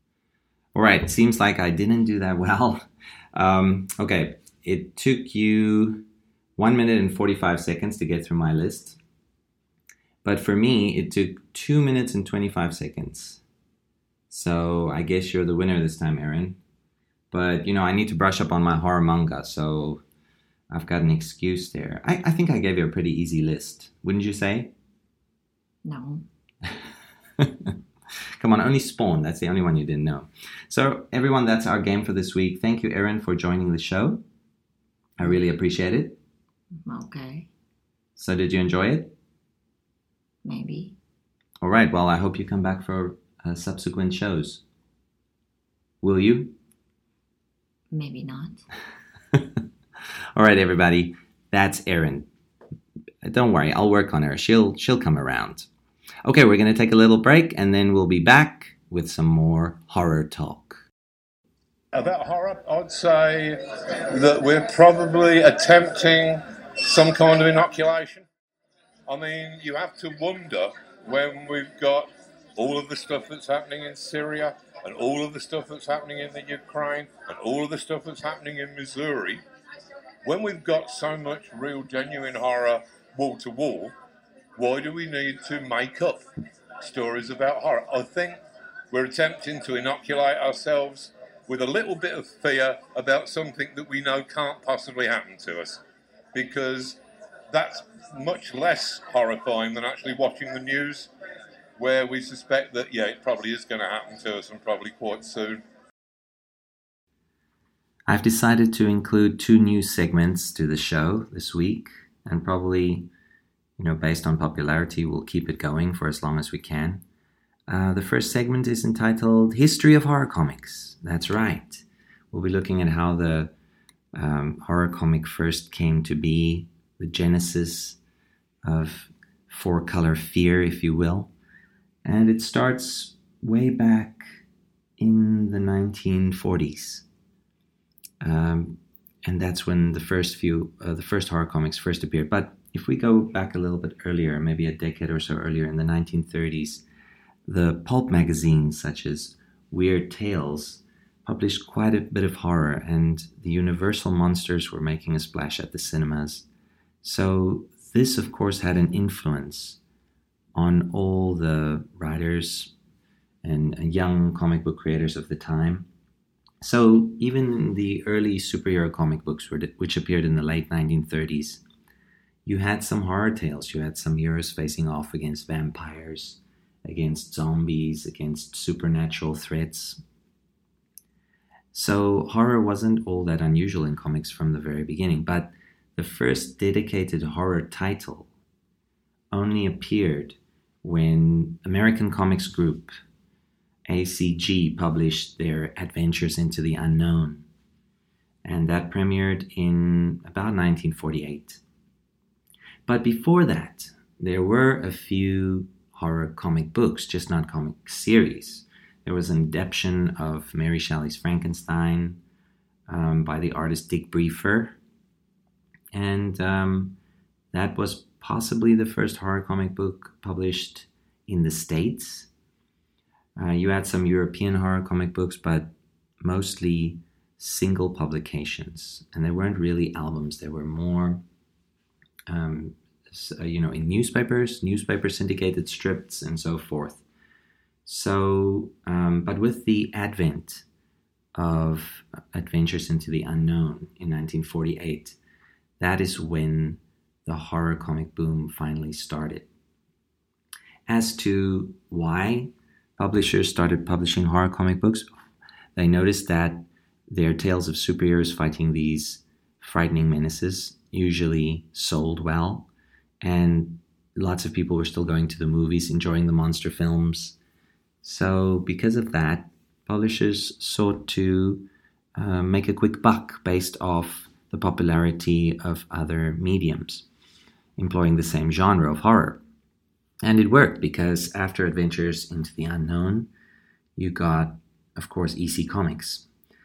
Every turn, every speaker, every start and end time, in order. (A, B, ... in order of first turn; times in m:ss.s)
0:00.7-0:06.0 A
0:06.6-0:09.0 A
0:10.2-0:13.4 A
0:14.3-0:16.6 A
0:17.3-0:20.0 A
0:20.7-0:24.7 A
0:25.8-0:26.3 B
0:27.4-0:27.7 A
0:28.4-0:34.2 A
0:35.2-0:36.2 A
0:36.8-0:37.5 B
0:38.2-0:39.1 A
0:40.4-0:41.0 B
0:41.6-0:44.6 A
0:46.0-0:46.6 A
0:47.9-0:48.6 B
0:50.4-0:52.3 A
0:53.2-0:55.7 A
0:56.2-1:00.8 A
1:01.9-1:08.3 C
1:09.1-1:19.4 C
1:20.2-1:23.9 C
1:24.6-1:26.2 C
1:26.8-1:28.4 C
1:28.9-1:35.8 C
1:36.3-1:37.0 C
1:37.5-1:41.1 C
1:41.8-1:45.6 C
1:48.1-1:53.1 A
1:53.8-1:57.0 A
1:57.7-2:03.5 A
2:04.1-2:08.0 A
2:08.6-2:11.3 A
2:12.0-2:14.4 A
2:15.0-2:17.0 A
2:18.2-2:26.8 A
2:27.5-2:36.5 A
2:37.0-2:39.8 A
2:40.6-2:42.7 A
2:43.4-2:45.9 A
2:46.6-2:51.6 A
2:52.5-3:00.0 A
3:01.7-3:08.3 A
3:09.3-3:12.9 A
3:13.9-3:17.4 A
3:18.4-3:21.6 A
3:22.9-3:32.2 A
3:32.9-3:34.8 A
3:35.9-3:37.0 A
3:37.5-3:42.3 A
3:43.4-3:51.2 A
3:52.3-3:57.0 A
3:57.8-4:00.6 A
4:01.4-4:05.2 A
4:05.8-4:09.5 A
4:10.9-4:15.1 A
4:15.8-4:22.7 A
4:23.2-4:27.4 A
4:28.0-4:37.1 A
4:37.8-4:39.4 A
4:40.2-4:43.3 A
4:44.0-4:46.3 A